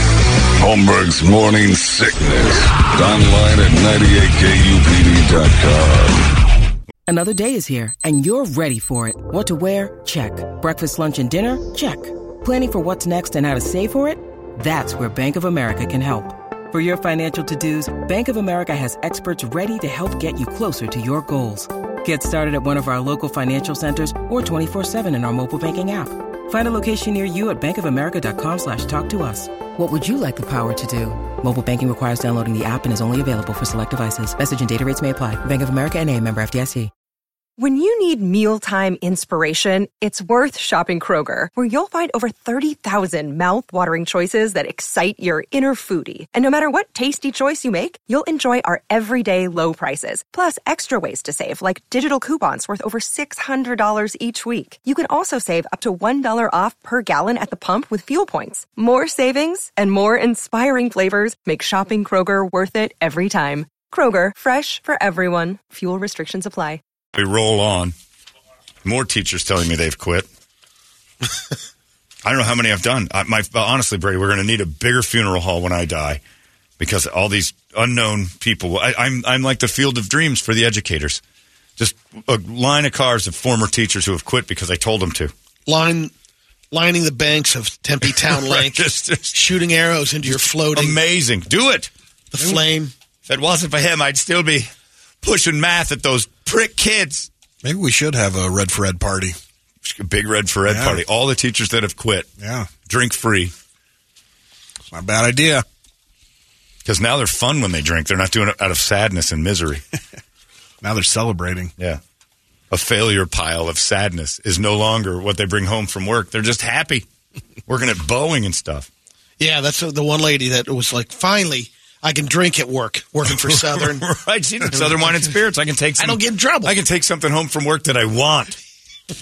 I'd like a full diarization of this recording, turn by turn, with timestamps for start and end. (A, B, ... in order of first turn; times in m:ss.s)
0:00.6-0:06.4 A
0:07.1-0:36.9 B
0:37.6-1:06.8 C
1:07.1-1:08.0 D
1:08.8-1:10.3 D
1:12.2-1:16.2 D
1:16.8-1:21.2 D
1:21.8-1:25.3 D
1:25.7-1:26.1 E
1:26.7-1:31.0 E
1:28.2-1:29.4 D
1:30.3-1:31.9 D
1:32.3-1:32.9 E
1:32.4-1:32.6 F
1:33.3-1:34.7 D
1:35.2-1:37.3 D
1:37.6-1:39.4 F
1:39.8-1:42.3 D
1:40.7-1:41.0 F
1:42.4-1:42.7 F
1:42.9-1:43.5 D
1:44.9-1:45.6 F
1:46.9-1:49.8 D
1:50.8-1:51.7 F
1:52.7-1:57.1 D
1:57.7-1:58.9 D
1:59.4-2:04.1 E
2:03.3-2:08.6 D
2:04.7-2:05.3 E
2:06.0-2:06.8 E